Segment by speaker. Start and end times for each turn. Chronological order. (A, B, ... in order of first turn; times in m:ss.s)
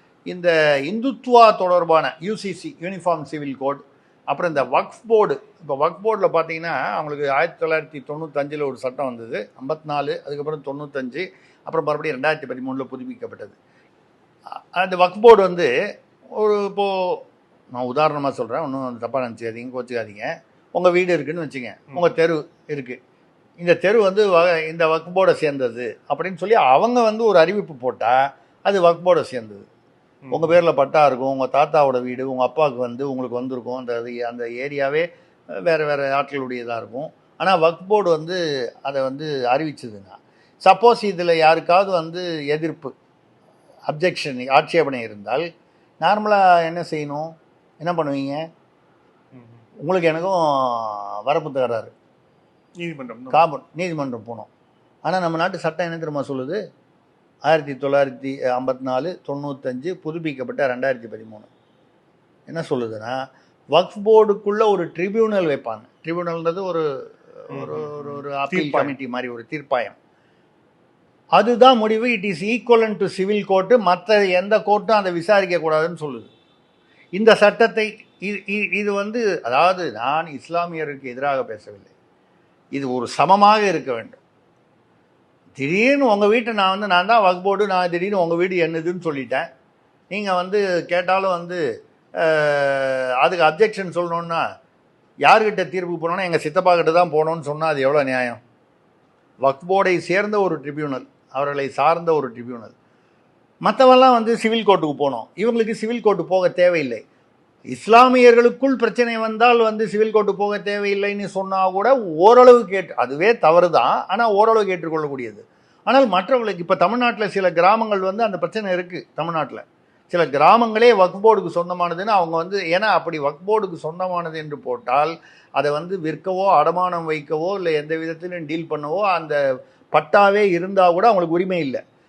0:00.3-0:13.6 A
0:14.8-0:15.7 A
0:16.4-0:17.2 A
0:17.7-0:23.0 A
0:23.6-0:29.6 A
0:30.2-0:30.6 B
0:30.3-0:35.1 A
0:35.6-0:42.9 A
0:43.9-0:45.5 A
0:46.0-0:48.4 A
0:49.3-0:49.6 B
0:49.8-0:51.9 A
0:52.8-0:53.4 B
0:53.3-0:54.5 A
0:55.1-0:56.6 A
0:57.5-1:01.5 A
1:02.5-1:03.2 A
1:03.7-1:06.8 A
1:07.4-1:10.0 A
1:07.5-1:09.0 B
1:11.4-1:16.3 A
1:17.2-1:21.9 A
1:22.8-1:24.2 A
1:25.6-1:29.5 A
1:30.1-1:31.6 A
1:32.2-1:34.4 A
1:35.3-1:38.4 A
1:39.4-1:42.7 A
1:43.6-1:47.0 A
1:47.7-2:09.4 A
2:09.9-2:11.8 A